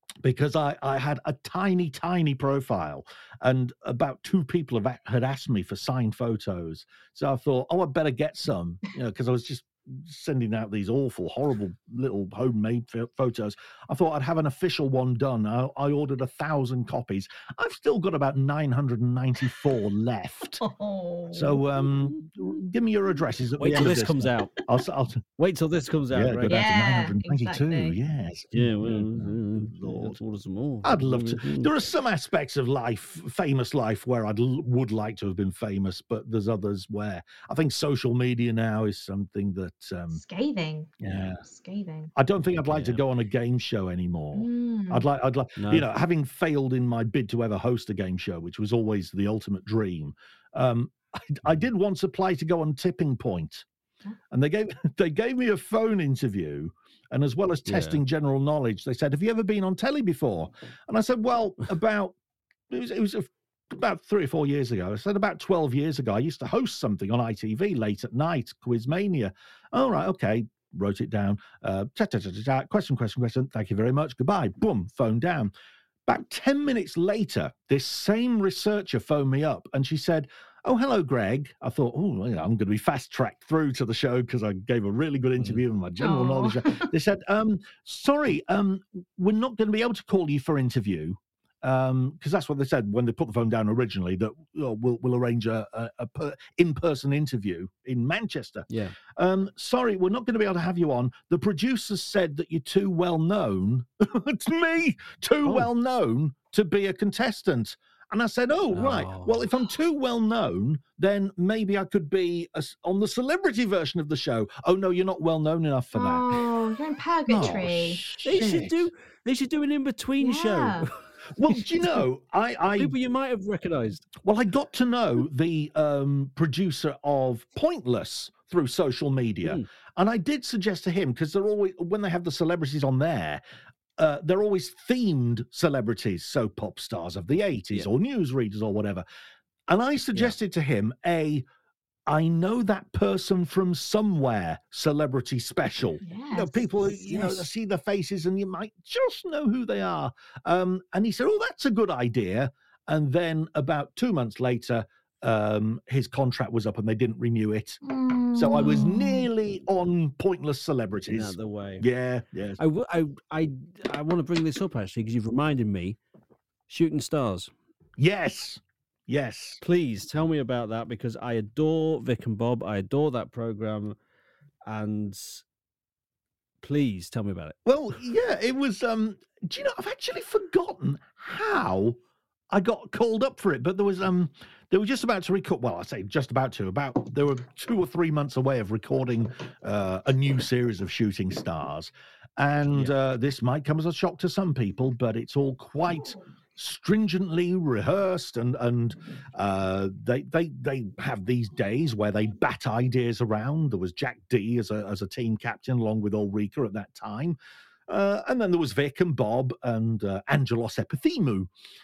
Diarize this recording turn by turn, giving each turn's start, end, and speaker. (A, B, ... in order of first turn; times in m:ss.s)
0:00.2-0:20.6 A
0:20.6-0:21.6 B
0:21.3-0:25.2 A
0:23.6-0:24.5 C
0:25.4-0:26.6 C
0:26.1-0:30.2 A
0:26.5-0:28.0 B
0:28.5-0:31.8 C
0:30.8-0:40.2 A
0:40.1-0:42.1 B
0:41.0-0:41.4 A
0:41.0-0:41.3 C
0:42.2-0:53.7 A
0:42.6-0:43.0 C
0:44.3-0:45.1 B
0:45.6-0:45.9 C
0:54.3-1:02.2 A
0:57.7-0:58.0 C
1:02.7-1:15.5 A
1:16.1-1:56.4 A
1:26.0-1:26.9 B
1:38.7-1:39.0 C
1:45.4-1:45.7 C
1:48.7-1:49.5 C
1:55.9-1:58.0 B
1:57.3-1:58.9 A
1:58.2-2:01.9 C
2:00.2-2:00.9 B
2:01.3-2:03.0 A
2:02.8-2:04.1 C
2:04.2-2:13.4 A
2:14.0-2:19.0 A
2:19.7-2:21.4 A
2:22.1-2:37.8 A
2:26.0-2:26.7 B
2:26.9-2:27.5 C
2:37.8-2:39.3 B
2:38.3-2:42.6 A
2:41.1-2:41.8 C
2:42.6-2:46.0 C
2:46.7-2:47.5 C
2:48.0-2:49.6 A
2:49.6-2:54.0 C
2:54.7-2:55.4 C
2:56.6-2:57.6 C
2:57.7-3:02.0 A
3:02.5-3:27.4 A
3:27.9-3:31.5 A